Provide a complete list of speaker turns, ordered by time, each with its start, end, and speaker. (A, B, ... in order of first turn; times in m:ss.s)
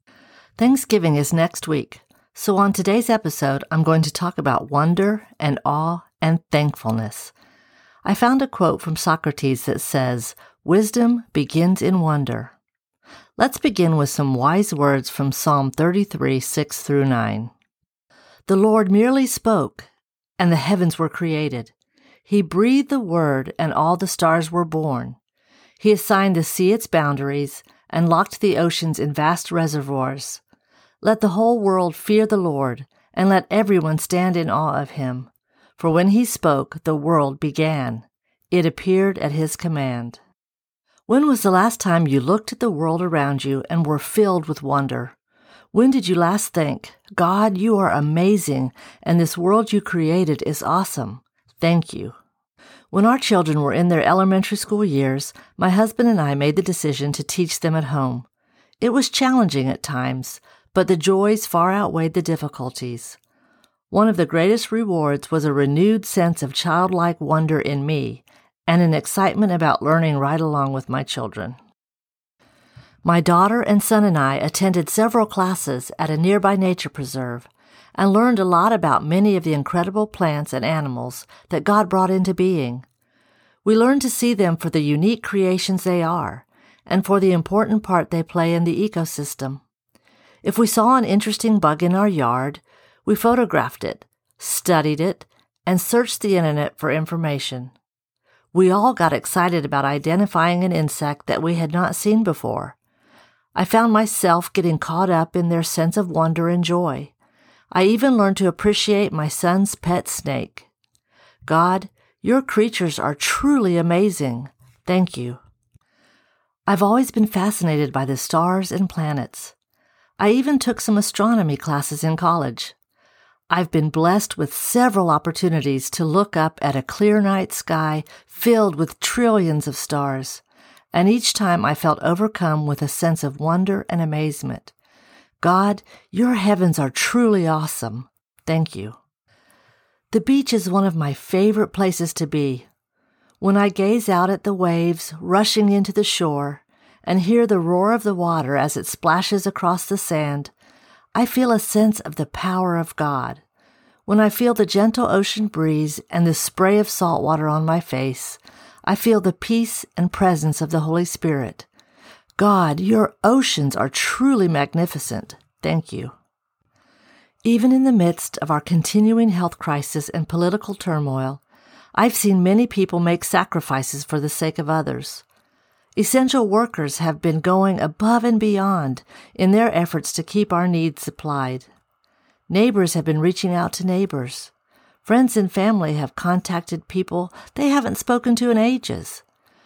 0:00.6-0:07.3 A
0:08.0-0:12.5 A
0:13.4-0:17.5 A
0:18.5-0:21.7 A
0:22.2-0:25.2 A
0:25.8-0:30.4 A
0:31.0-0:40.2 A
0:41.1-0:45.2 A
0:45.7-0:52.2 A
0:52.9-0:58.3 A
0:58.8-1:03.2 A
1:03.9-1:11.6 A
1:13.0-1:22.9 A
1:23.6-1:29.6 A
1:30.4-1:37.7 A
1:38.5-1:42.8 A
1:43.6-1:47.2 A
1:47.7-1:50.7 A
1:51.4-1:55.4 A
1:56.7-1:59.6 A
2:00.2-2:02.8 A
2:03.5-2:14.7 A
2:15.4-2:19.0 A
2:20.1-2:22.7 A
2:23.4-2:30.5 A
2:31.1-2:33.4 A
2:34.1-2:41.7 A
2:42.4-2:46.2 A
2:47.4-2:51.4 A
2:51.9-2:55.2 A
2:56.0-3:01.7 A
3:02.5-3:04.5 A
3:05.0-3:09.2 A